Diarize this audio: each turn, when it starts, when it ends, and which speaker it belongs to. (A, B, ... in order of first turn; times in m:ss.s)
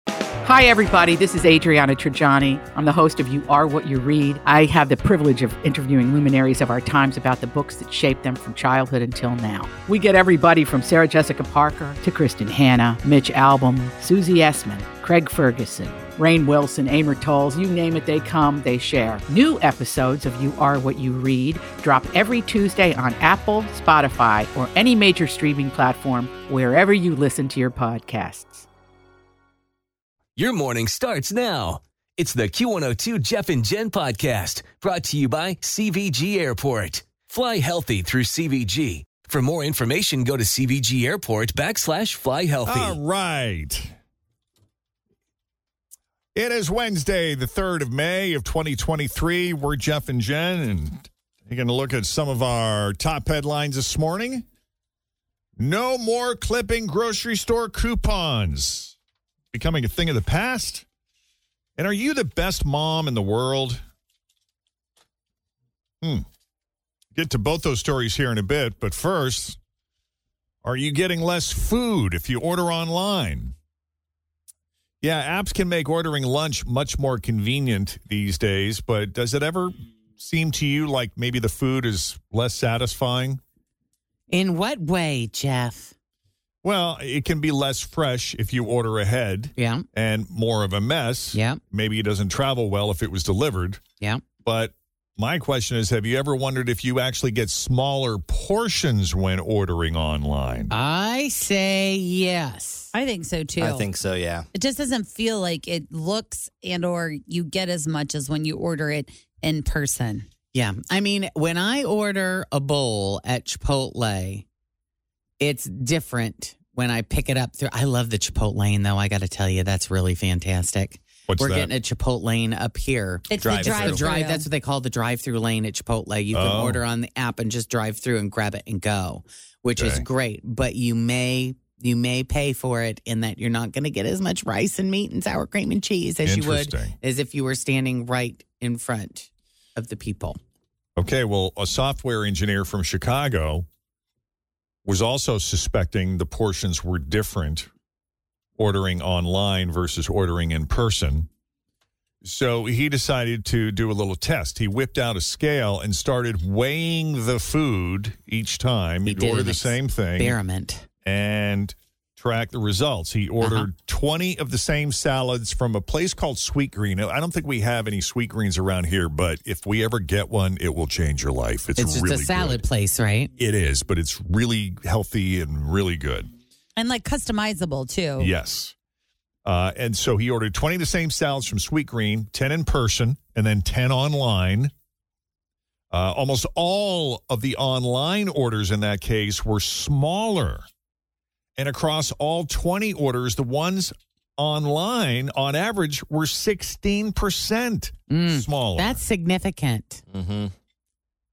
0:00.4-0:28.6 A
0:30.4-0:43.0 B
0:42.6-0:43.9 C
0:46.4-0:54.4 C
0:55.6-0:59.0 C
0:59.5-1:00.8 C
1:01.8-1:03.8 C
1:07.2-1:09.6 C
1:10.6-1:13.6 C
1:15.0-1:23.4 C
1:24.4-1:25.9 D
1:26.6-1:40.7 C
1:40.7-1:42.9 D
1:42.9-1:43.9 E
1:43.6-1:44.5 F
1:44.5-1:50.3 E
1:50.5-1:54.4 D
1:55.4-2:20.4 D
2:01.3-2:01.7 C
2:03.3-2:04.5 E
2:03.4-2:04.0 F
2:06.3-2:06.8 C
2:09.7-2:10.1 C
2:16.2-2:17.0 C
2:21.0-2:23.7 C
2:24.8-2:27.7 C
2:28.6-2:31.3 C
2:32.2-2:40.4 C
2:39.1-2:39.6 D
2:40.6-2:40.8 D
2:41.0-2:52.7 C
2:51.8-2:53.3 D
2:53.4-2:56.3 C
2:56.8-2:58.3 E
2:58.2-2:58.7 C
2:59.4-3:04.7 C
3:05.9-3:10.7 C
3:11.6-3:19.0 C
3:19.3-3:20.0 D
3:20.1-3:20.5 F